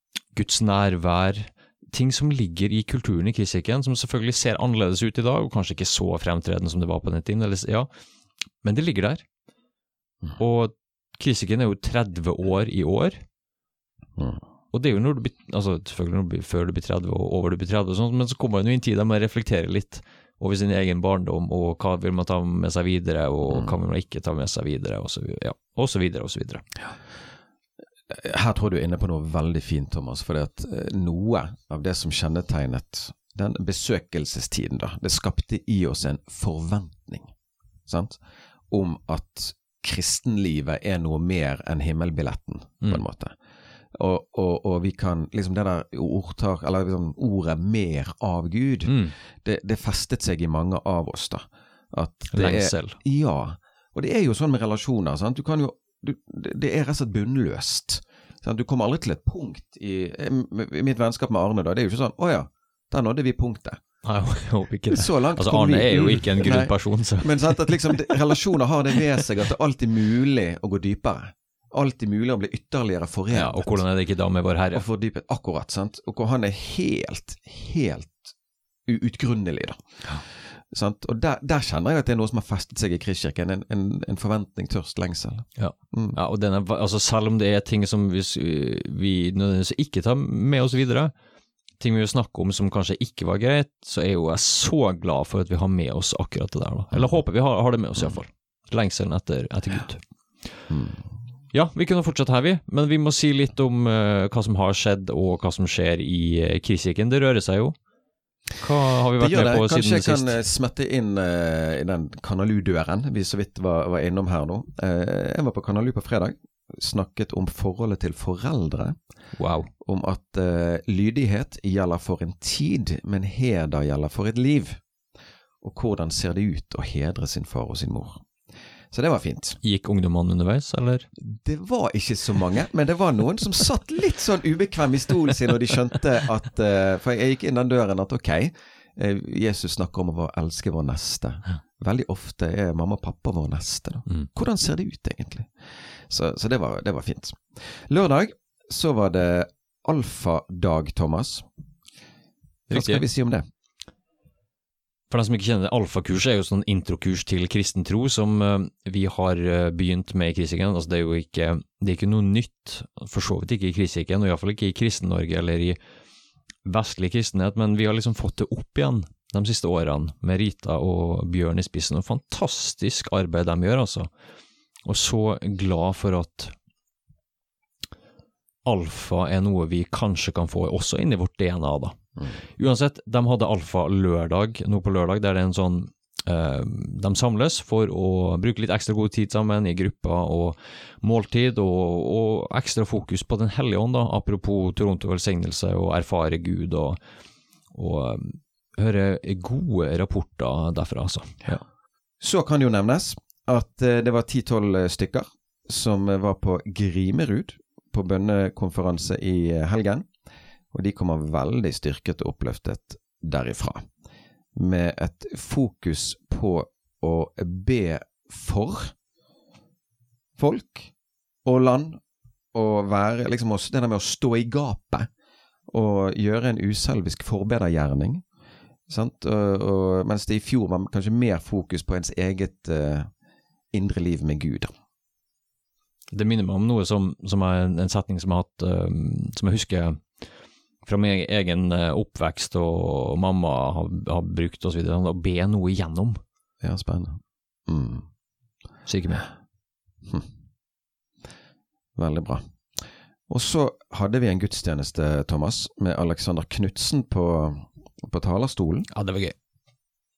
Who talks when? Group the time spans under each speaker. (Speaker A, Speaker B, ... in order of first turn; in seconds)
Speaker A: 0.3-7.9, 8.6-9.2, 10.4-13.2, 14.7-26.6, 48.9-49.1, 52.3-53.0, 64.0-68.2, 73.3-74.8, 85.5-91.1, 91.8-100.6, 101.5-107.8, 108.6-110.3, 119.3-119.7, 129.6-131.1, 152.7-153.0, 155.1-165.8, 166.6-174.1, 174.8-176.5, 178.6-197.0, 197.7-201.6, 236.1-240.3, 240.8-246.2, 248.8-249.3, 258.9-259.4
Speaker B: 14.2-14.4, 23.5-23.7, 28.1-37.3, 37.9-38.2, 38.7-43.3, 43.9-63.8, 64.9-73.8, 74.7-78.3, 78.8-86.2, 100.7-101.1, 109.2-119.0, 119.8-124.8, 125.6-128.2, 128.9-129.6, 131.2-151.5, 152.7-153.4, 202.2-210.1, 210.7-213.9, 214.5-218.9, 220.4-220.9, 221.4-222.0, 222.5-225.1, 225.7-228.2, 228.9-233.1, 233.7-234.7, 246.6-248.1, 251.9-258.9